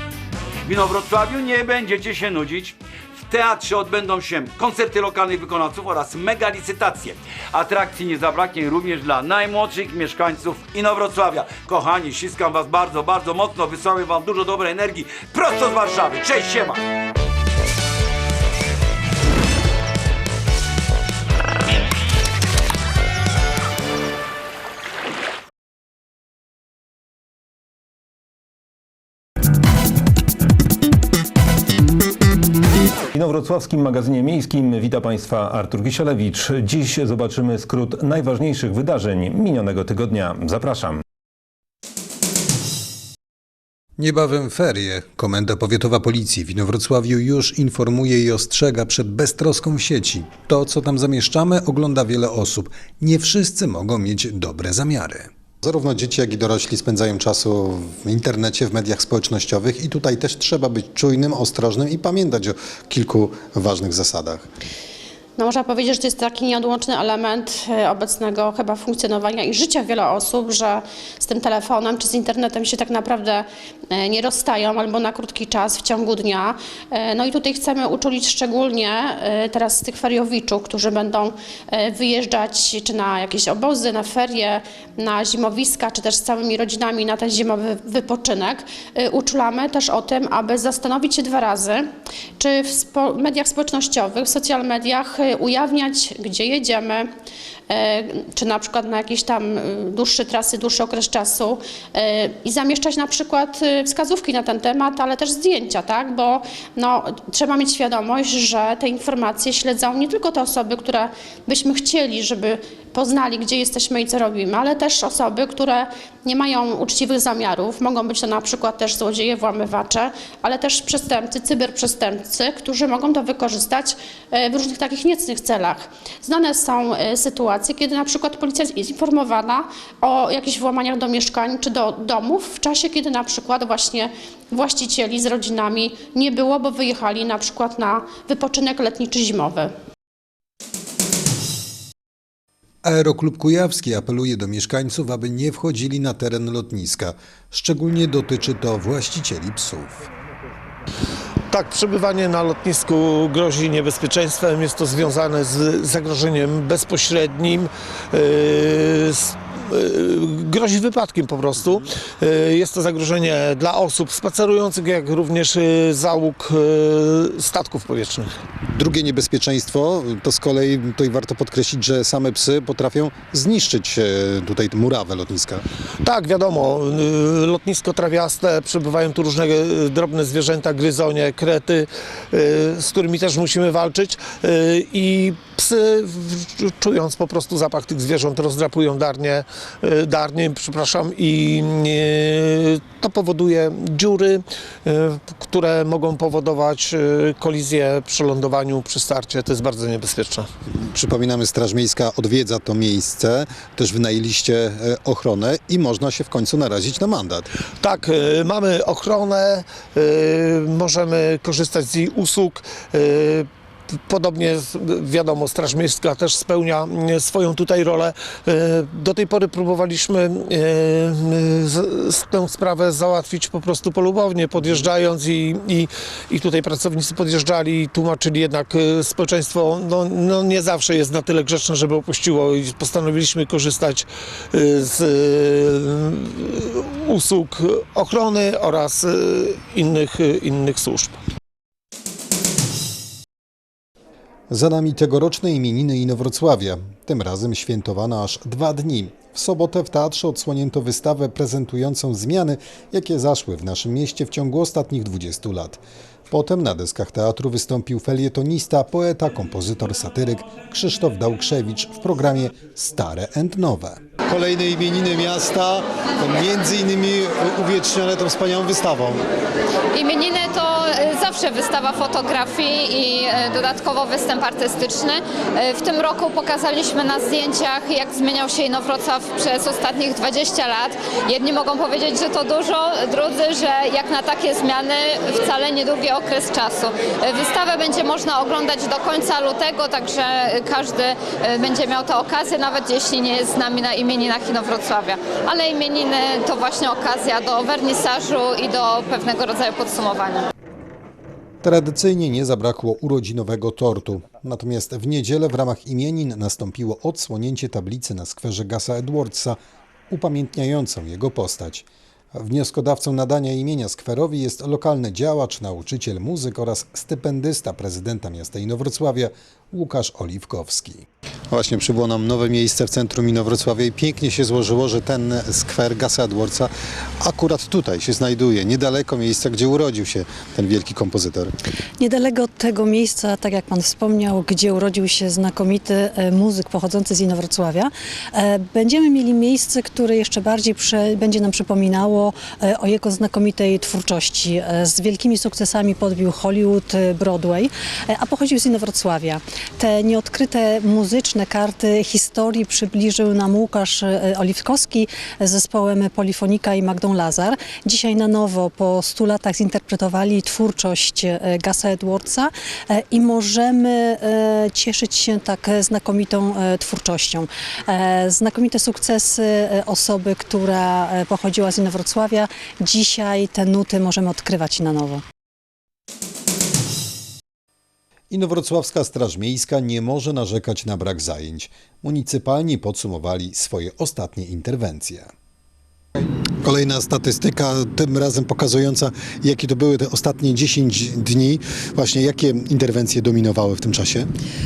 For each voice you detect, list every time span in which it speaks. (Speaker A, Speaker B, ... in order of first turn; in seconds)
Speaker A: 0.7-16.8
Speaker B: 33.1-41.0
Speaker C: 44.0-64.5, 142.8-150.0, 168.7-175.6, 200.7-207.5, 244.5-269.2, 301.6-309.6, 310.1-331.5, 378.3-385.3, 386.6-394.3
Speaker D: 65.4-91.8, 92.4-97.1, 97.7-139.7
Speaker E: 151.5-168.3, 176.0-200.5, 207.8-213.5, 214.1-241.2
Speaker F: 269.9-300.5
Speaker G: 332.0-375.2